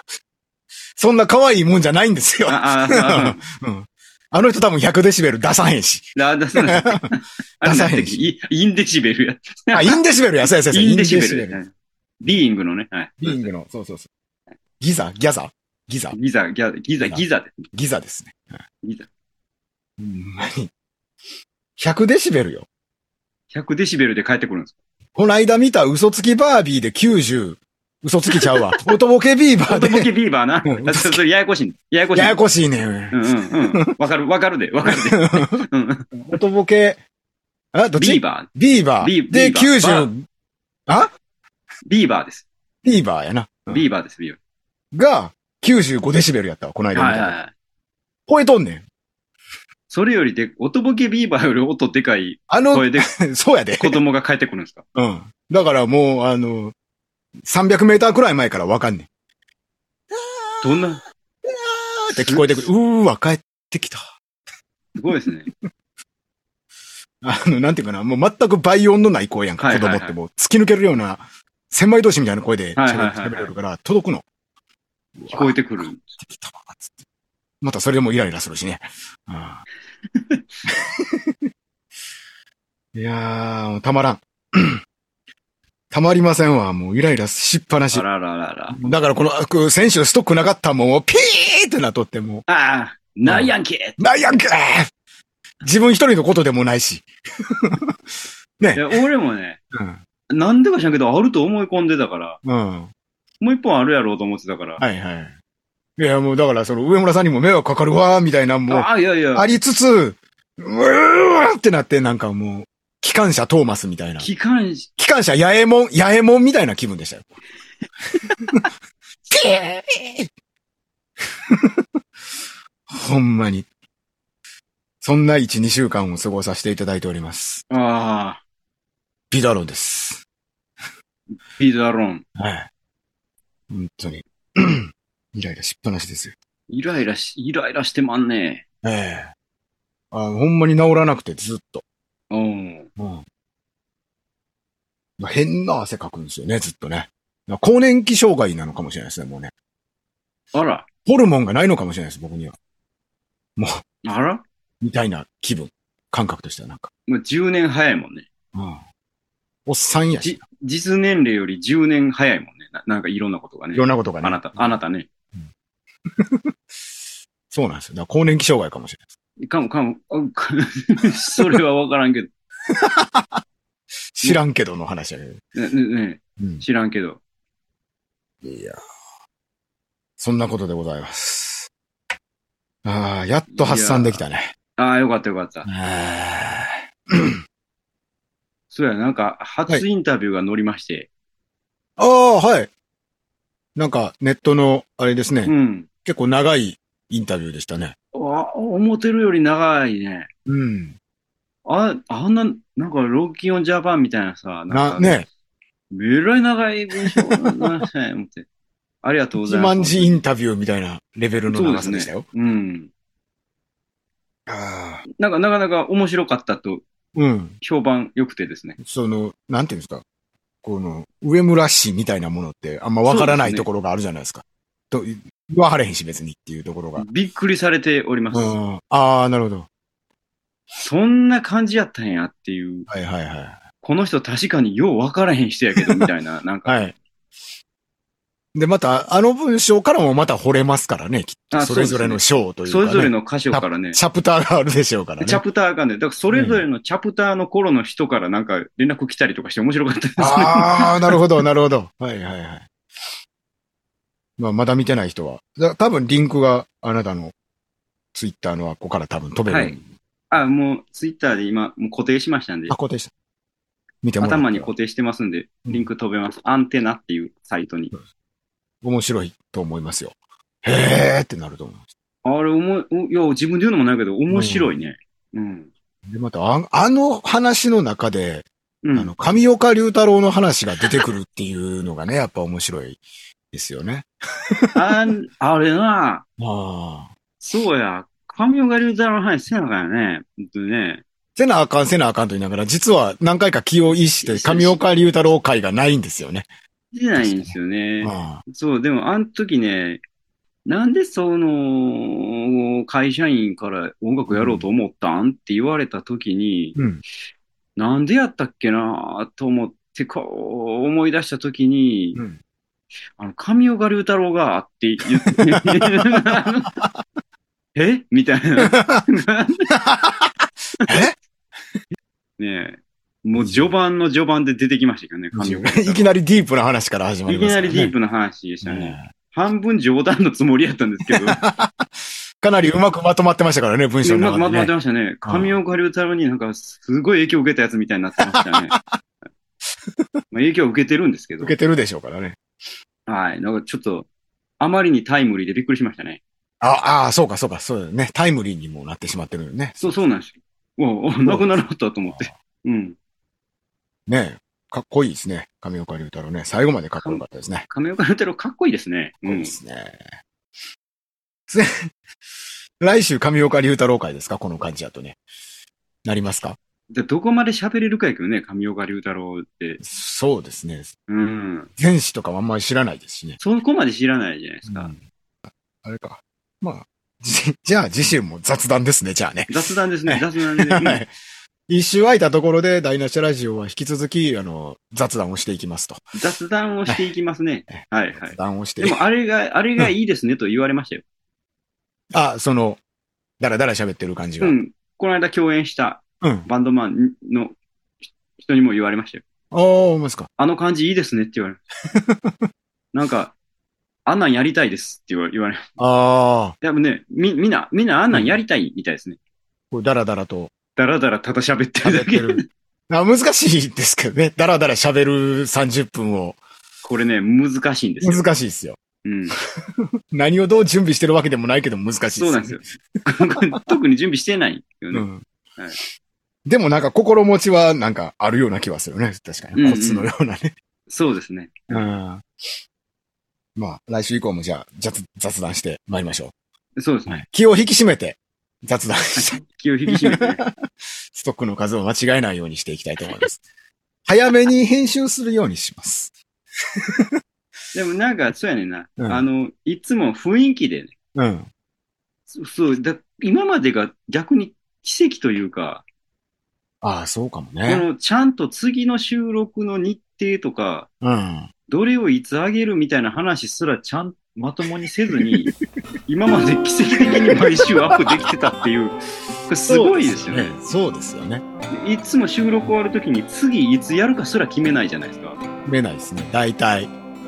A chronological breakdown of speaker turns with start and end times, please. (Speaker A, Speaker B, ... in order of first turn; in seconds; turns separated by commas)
Speaker A: 1.0-7.1, Speaker B: 2.5-3.4, Speaker B: 6.2-13.5, Speaker A: 7.6-8.2, Speaker A: 9.7-11.6, Speaker A: 13.2-14.1, Speaker A: 14.8-16.1, Speaker B: 16.1-17.7, Speaker A: 17.0-18.6, Speaker B: 18.8-19.1, Speaker A: 20.0-20.7, Speaker A: 21.8-22.7, Speaker B: 23.5-24.8, Speaker A: 25.1-30.1, Speaker B: 28.3-28.8, Speaker B: 29.6-32.4, Speaker A: 30.6-31.2, Speaker A: 32.1-33.9, Speaker B: 33.1-36.1, Speaker A: 34.8-35.6, Speaker A: 36.2-37.0, Speaker A: 37.7-40.2, Speaker B: 38.0-38.5, Speaker B: 39.0-40.1, Speaker A: 40.9-41.1, Speaker B: 41.9-42.5, Speaker A: 42.8-43.9, Speaker B: 43.7-44.4, Speaker A: 44.9-47.3, Speaker B: 46.9-47.5, Speaker A: 48.3-48.8, Speaker B: 49.9-53.1, Speaker A: 52.5-54.0, Speaker B: 53.8-54.8, Speaker A: 54.9-56.7, Speaker A: 57.4-59.1, Speaker A: 60.1-60.8, Speaker B: 60.6-61.0, Speaker A: 61.4-64.1, Speaker B: 62.1-62.7, Speaker B: 65.0-65.5, Speaker A: 67.2-74.2, Speaker B: 69.6-70.2, Speaker B: 72.8-73.5, Speaker A: 75.2-77.0, Speaker B: 75.3-76.0, Speaker A: 77.6-79.6, Speaker B: 80.1-80.4, Speaker A: 80.7-81.4, Speaker A: 82.9-84.8, Speaker A: 85.9-88.0, Speaker B: 87.9-88.9, Speaker A: 88.7-92.5, Speaker B: 92.5-94.0, Speaker A: 93.2-94.9, Speaker A: 95.6-98.9, Speaker B: 98.7-99.6, Speaker A: 99.7-100.0, Speaker B: 100.3-102.4, Speaker A: 102.4-102.9, Speaker B: 103.4-104.8, Speaker A: 104.8-105.3, Speaker A: 106.0-114.3, Speaker B: 108.7-109.5, Speaker B: 114.2-114.9, Speaker A: 115.0-117.3, Speaker A: 119.3-120.3, Speaker A: 121.5-121.8, Speaker A: 122.9-123.7, Speaker A: 125.0-127.6, Speaker B: 127.7-128.4, Speaker A: 129.3-130.2, Speaker B: 131.5-132.2, Speaker A: 132.3-132.7, Speaker A: 133.7-136.3, Speaker B: 136.7-138.6, Speaker A: 138.8-139.3, Speaker A: 140.1-141.8, Speaker B: 142.3-142.9, Speaker A: 143.0-143.2, Speaker A: 145.2-149.5, Speaker B: 150.5-150.9, Speaker A: 151.1-152.6, Speaker A: 153.6-153.8, Speaker B: 154.0-154.4, Speaker A: 154.8-156.9, Speaker B: 157.1-158.3, Speaker A: 158.5-158.8, Speaker A: 159.7-160.4, Speaker B: 160.2-165.1, Speaker A: 163.7-164.8, Speaker A: 166.1-166.9, Speaker A: 167.5-169.1, Speaker B: 169.4-172.3, Speaker A: 172.7-173.4, Speaker A: 174.2-175.4, Speaker B: 175.5-177.2, Speaker A: 178.4-178.8, Speaker A: 180.2-181.7, Speaker A: 182.8-184.5, Speaker B: 183.5-184.2, Speaker B: 184.8-185.7, Speaker A: 185.7-187.4, Speaker B: 188.7-191.1, Speaker A: 192.0-192.7, Speaker A: 193.8-195.5, Speaker B: 195.4-195.9, Speaker A: 196.0-197.9, Speaker B: 198.1-200.3, Speaker A: 200.5-201.0, Speaker B: 201.6-205.2, Speaker A: 204.7-205.2, Speaker B: 205.9-208.4, Speaker A: 206.9-207.8, Speaker B: 209.0-210.2, Speaker A: 209.4-212.2, Speaker B: 211.5-212.9, Speaker A: 214.5-215.0, Speaker B: 215.2-216.8, Speaker A: 217.1-217.6, Speaker B: 217.6-218.8, Speaker A: 218.8-220.0, Speaker A: 220.6-227.0, Speaker B: 223.0-223.7, Speaker B: 226.9-228.6, Speaker A: 228.3-229.7, Speaker B: 230.8-232.9, Speaker A: 232.9-233.6, Speaker B: 233.8-236.9, Speaker A: 235.8-236.1, Speaker A: 236.7-236.9, Speaker A: 238.5-245.4, Speaker B: 241.5-244.0, Speaker B: 245.2-251.2, Speaker A: 246.3-246.6, Speaker A: 250.2-252.7, Speaker A: 254.4-257.3, Speaker A: 258.1-259.9, Speaker B: 259.5-259.8, Speaker B: 260.3-262.7, Speaker A: 262.7-263.1, Speaker A: 264.0-264.7, Speaker B: 264.2-267.9, Speaker A: 268.8-271.8, Speaker B: 272.2-275.7, Speaker A: 274.3-274.7, Speaker A: 276.1-283.0, Speaker B: 278.8-279.1, Speaker A: 283.5-284.8, Speaker B: 284.7-286.2, Speaker A: 286.4-287.1, Speaker B: 287.4-291.0, Speaker A: 291.4-296.5, Speaker B: 293.9-294.9, Speaker B: 296.9-300.0, Speaker A: 297.2-298.4, Speaker B: 300.6-306.8, Speaker A: 304.3-304.6, Speaker A: 306.8-307.0, Speaker B: 307.8-312.2, Speaker B: 313.2-316.8, Speaker A: 315.2-316.9, Speaker B: 317.7-319.7, Speaker A: 318.7-319.1, Speaker A: 319.7-320.3, Speaker B: 320.8-321.1, Speaker A: 320.9-321.1, Speaker B: 322.4-326.1, Speaker A: 323.4-323.7, Speaker A: 325.3-327.9, Speaker B: 327.2-331.4, Speaker A: 328.6-329.1, Speaker A: 331.1-331.9, Speaker A: 332.4-334.7, Speaker B: 334.0-338.7, Speaker A: 335.2-335.6, Speaker A: 338.3-339.0, Speaker B: 340.3-341.5, Speaker A: 341.4-342.4, Speaker B: 343.1-344.1, Speaker B: 344.6-346.2, Speaker A: 346.6-350.0, Speaker B: 349.8-352.9, Speaker A: 351.2-352.3, Speaker A: 354.1-357.6, Speaker B: 357.0-359.5, Speaker A: 359.2-360.1, Speaker A: 361.5-361.9, Speaker A: 362.8-365.2, Speaker A: 366.0-366.6, Speaker B: 366.9-369.8, Speaker A: 369.8-370.9, Speaker B: 371.1-371.7, Speaker A: 371.8-373.4, Speaker B: 373.4-374.9, Speaker A: 374.7-381.1, Speaker B: 379.5-381.0, Speaker A: 381.7-386.0, Speaker B: 386.1-391.0, Speaker A: 388.2-389.0, Speaker A: 392.1-392.8, Speaker A: 393.4-394.6, Speaker B: 394.4-397.6, Speaker A: 396.2-396.5, Speaker B: 398.4-399.2, Speaker A: 399.5-400.3, Speaker B: 400.4-401.6, Speaker A: 401.9-402.4, Speaker B: 402.9-403.3, Speaker B: 404.1-405.7, Speaker A: 405.8-406.5, Speaker B: 406.6-409.2, Speaker A: 408.1-408.4, Speaker A: 409.7-410.5, Speaker B: 410.8-412.4, Speaker A: 411.8-416.4, Speaker B: 416.8-418.3, Speaker A: 418.0-418.8, Speaker B: 419.0-419.4, Speaker A: 419.6-422.6, Speaker B: 422.1-425.8, Speaker A: 424.9-425.2, Speaker A: 426.4-430.5, Speaker B: 429.5-430.1, Speaker B: 430.9-431.8, Speaker A: 431.7-432.2, Speaker A: 433.6-436.3, Speaker B: 436.8-437.2, Speaker A: 437.1-440.5, Speaker B: 439.1-440.4, Speaker A: 441.1-443.4, Speaker A: 444.1-446.1, Speaker A: 446.7-447.2, Speaker B: 447.7-450.9, Speaker A: 449.0-449.2, Speaker A: 451.1-451.5, Speaker B: 452.3-455.8, Speaker A: 456.8-457.9, Speaker B: 457.6-460.9, Speaker A: 461.0-461.5, Speaker B: 461.7-465.5, Speaker A: 465.2-465.5, Speaker B: 466.1-470.5, Speaker A: 467.0-468.3, Speaker A: 469.6-471.4, Speaker B: 471.7-475.4, Speaker A: 475.6-476.9